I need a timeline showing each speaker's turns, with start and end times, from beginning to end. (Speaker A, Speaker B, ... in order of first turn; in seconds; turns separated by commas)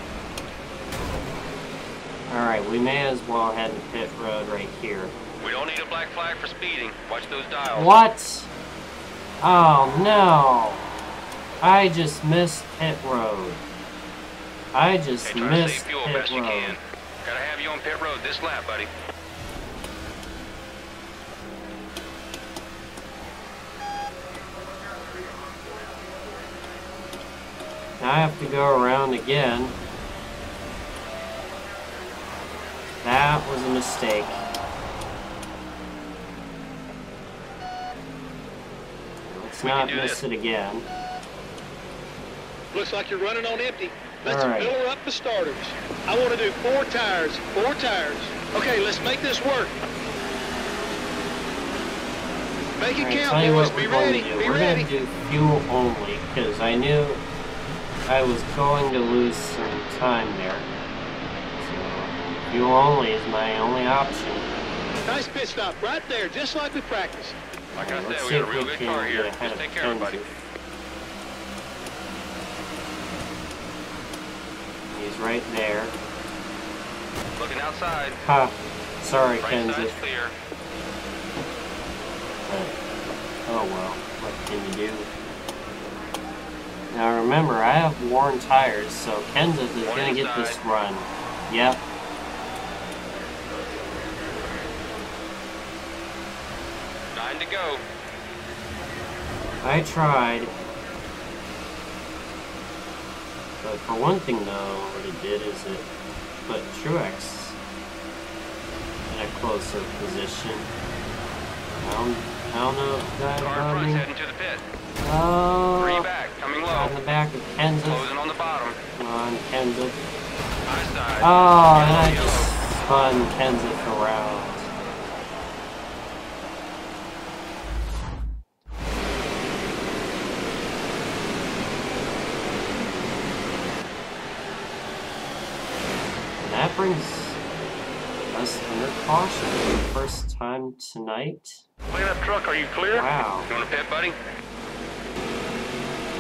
Speaker A: 2.3-5.1, Speaker B: 5.4-8.0, Speaker A: 7.7-8.5, Speaker A: 9.4-10.9, Speaker A: 11.6-13.6, Speaker A: 14.7-16.8, Speaker B: 15.2-18.9, Speaker A: 28.0-29.8, Speaker A: 33.0-34.4, Speaker A: 39.2-40.9, Speaker B: 39.6-40.2, Speaker C: 42.7-49.7, Speaker A: 44.2-44.8, Speaker C: 52.8-54.9, Speaker A: 53.0-57.2, Speaker A: 58.1-60.7, Speaker A: 61.6-64.5, Speaker C: 65.0-67.3, Speaker A: 67.8-70.4, Speaker B: 67.8-70.3, Speaker A: 74.9-75.9, Speaker B: 77.4-78.2, Speaker A: 78.2-80.0, Speaker B: 79.4-80.3, Speaker A: 82.5-82.7, Speaker A: 83.5-85.1, Speaker A: 86.9-91.8, Speaker B: 89.8-90.6, Speaker B: 97.1-97.8, Speaker A: 99.6-100.5, Speaker A: 103.6-105.9, Speaker A: 106.5-107.6, Speaker A: 109.1-110.7, Speaker A: 111.8-114.1, Speaker B: 113.4-114.6, Speaker A: 115.0-116.1, Speaker B: 115.8-116.9, Speaker A: 116.7-118.1, Speaker B: 117.8-118.8, Speaker A: 119.0-120.0, Speaker B: 120.7-122.5, Speaker A: 121.2-124.7, Speaker A: 136.4-137.4, Speaker A: 138.3-141.7, Speaker B: 141.9-144.2, Speaker A: 142.9-143.5